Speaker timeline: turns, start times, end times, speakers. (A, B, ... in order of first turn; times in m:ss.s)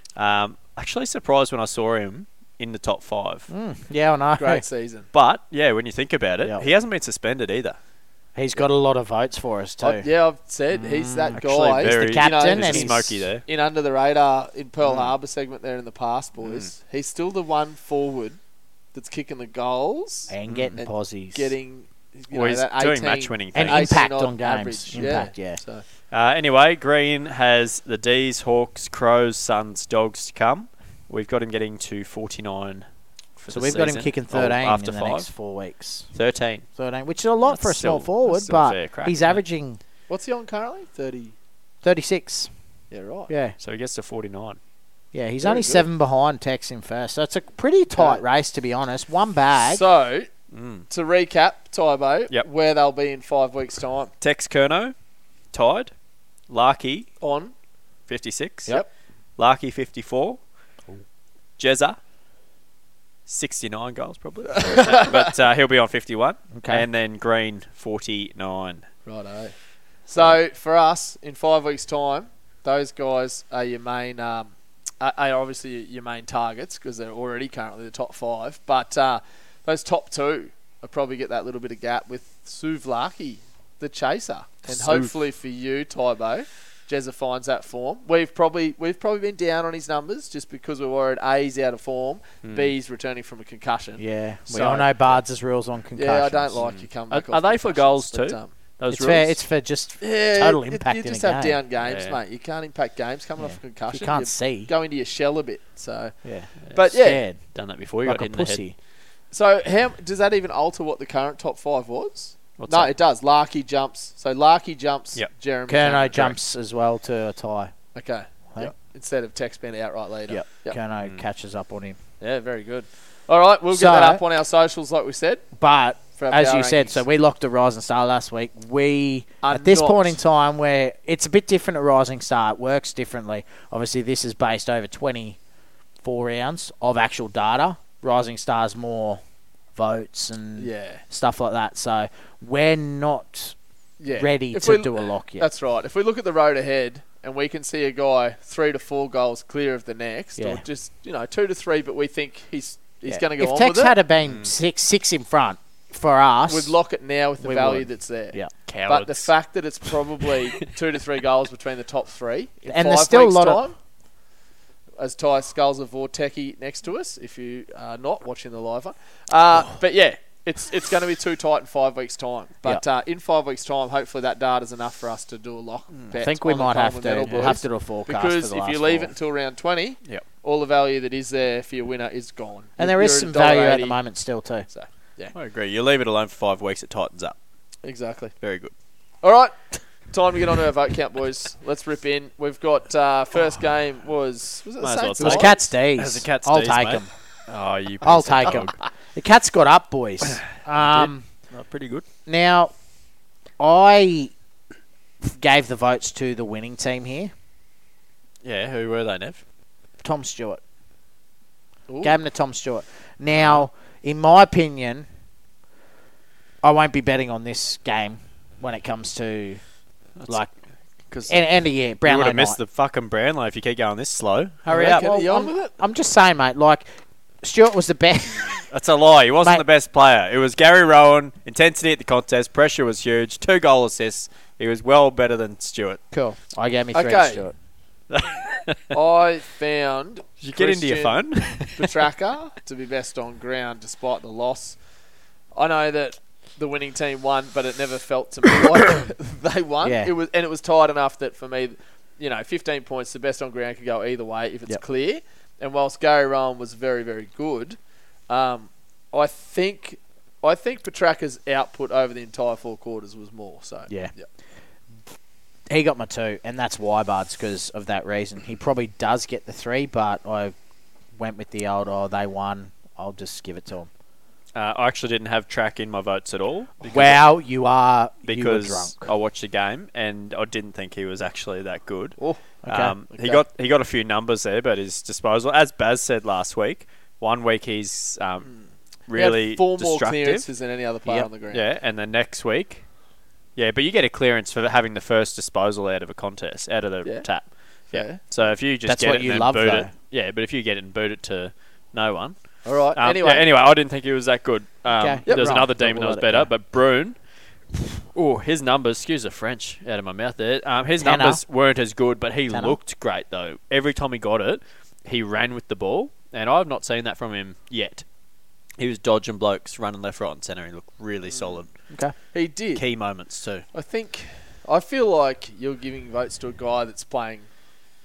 0:00.2-0:03.5 A
0:03.5-0:04.6 B
0:04.4-0:05.1 C
0:05.1-0:07.8 A
0:08.3-0:10.1 B
0:09.8-0:18.4 C
0:10.7-0:13.2 B
0:11.3-0:13.4 A
0:14.8-0:15.1 A
0:16.4-0:16.7 A
0:18.9-0:25.8 C
0:20.3-0:21.5 B
0:20.5-0:20.8 A
0:22.3-0:24.0 A
0:23.5-0:25.6 B
0:24.9-0:25.2 A
0:26.1-0:32.8 A
0:33.4-0:35.3 A
0:33.5-0:36.1 B
0:36.1-0:36.6 A
0:36.8-0:39.8 B
0:37.4-0:39.4 A
0:40.1-0:41.3 C
0:41.8-0:42.5 B
0:42.9-0:43.3 C
0:43.3-0:43.6 B
0:43.6-0:44.6 A
0:45.1-0:49.8 B
0:45.4-0:45.8 C
0:48.0-0:48.2 C
0:49.5-0:50.3 C
0:50.5-0:50.8 A
0:50.9-0:54.1 C
0:54.2-0:54.9 A
0:55.5-0:55.9 A
0:56.5-0:57.1 A
0:57.2-0:57.5 C
0:58.1-0:58.8 A
0:59.4-1:00.4 A
1:01.6-1:02.0 A
1:03.3-1:08.8 A
1:04.5-1:05.3 C
1:06.5-1:06.8 B
1:09.0-1:09.6 C
1:10.1-1:35.2 C
1:24.7-1:25.1 A
1:32.4-1:32.7 A
1:34.0-1:36.6 B
1:35.9-1:38.5 C
1:36.6-1:39.4 A
1:38.9-1:41.6 B
1:40.0-1:47.2 C
1:41.8-1:42.2 A
1:43.4-1:44.7 B
1:46.2-1:47.4 B
1:47.5-1:48.6 A
1:48.0-1:48.7 B
1:49.3-1:56.3 C
1:52.6-1:52.9 A
1:55.7-1:57.7 B
1:57.9-2:00.8 C
2:00.3-2:02.0 B
2:02.2-2:05.4 C
2:03.7-2:04.2 B
2:05.5-2:15.4 B
2:06.2-2:07.0 C
2:09.4-2:10.2 C
2:16.0-2:19.2 B
2:19.7-2:23.6 B
2:20.6-2:21.0 C
2:24.0-2:34.0 C
2:24.1-2:25.4 B
2:30.4-2:30.6 B
2:33.0-2:36.8 B
2:34.2-2:34.5 A
2:36.5-2:43.7 C
2:37.4-2:38.5 B
2:38.7-2:39.3 A
2:42.6-2:43.6 B
2:45.0-3:04.0 C
2:56.1-2:59.1 B
2:57.2-2:57.5 A
3:02.8-3:04.7 B
3:04.7-3:05.3 C
3:05.3-3:07.4 A
3:07.8-3:08.3 C
3:08.4-3:08.7 A
3:09.2-3:15.6 C
3:14.8-3:18.8 A
3:15.2-3:17.1 B
3:18.0-3:21.2 B
3:20.3-3:22.0 A
3:22.2-3:22.7 B
3:23.6-3:24.3 B
3:25.2-3:27.3 B
3:28.4-3:29.4 A
3:30.0-3:30.6 B
3:31.9-3:32.2 C
3:32.0-3:35.1 B
3:33.3-3:33.6 A
3:36.6-3:39.6 B
3:41.1-3:41.4 A
3:41.3-3:42.6 B
3:42.0-3:45.0 A
3:44.7-3:45.7 C
3:44.7-3:46.8 B
3:47.4-3:48.6 B
3:48.7-3:56.0 A
3:56.1-3:57.5 B
3:56.9-3:57.4 C
3:58.1-3:58.9 A
3:58.9-4:04.8 C
4:00.4-4:01.9 A
4:05.5-4:17.8 C
4:09.8-4:10.1 B
4:18.3-4:24.3 C
4:23.9-4:24.1 B
4:25.7-4:30.5 B
4:31.2-4:33.9 B
4:34.5-4:37.2 A
4:36.9-4:39.1 B
4:38.2-4:48.5 A
4:42.2-4:42.4 C
4:42.6-4:42.9 B
4:43.1-4:43.4 C
4:48.5-4:51.6 C
4:49.1-4:50.5 A
4:51.5-4:52.8 A
4:53.6-5:07.2 A
4:57.9-4:58.2 C
4:58.8-4:59.9 B
5:02.6-5:03.5 C
5:04.9-5:06.5 B
5:05.2-5:05.6 C
5:07.7-5:18.0 A
5:11.0-5:11.4 B
5:12.5-5:12.8 B
5:18.8-5:21.7 A
5:21.3-5:21.6 C
5:22.3-5:22.8 C
5:22.7-5:23.6 A
5:23.7-5:27.5 C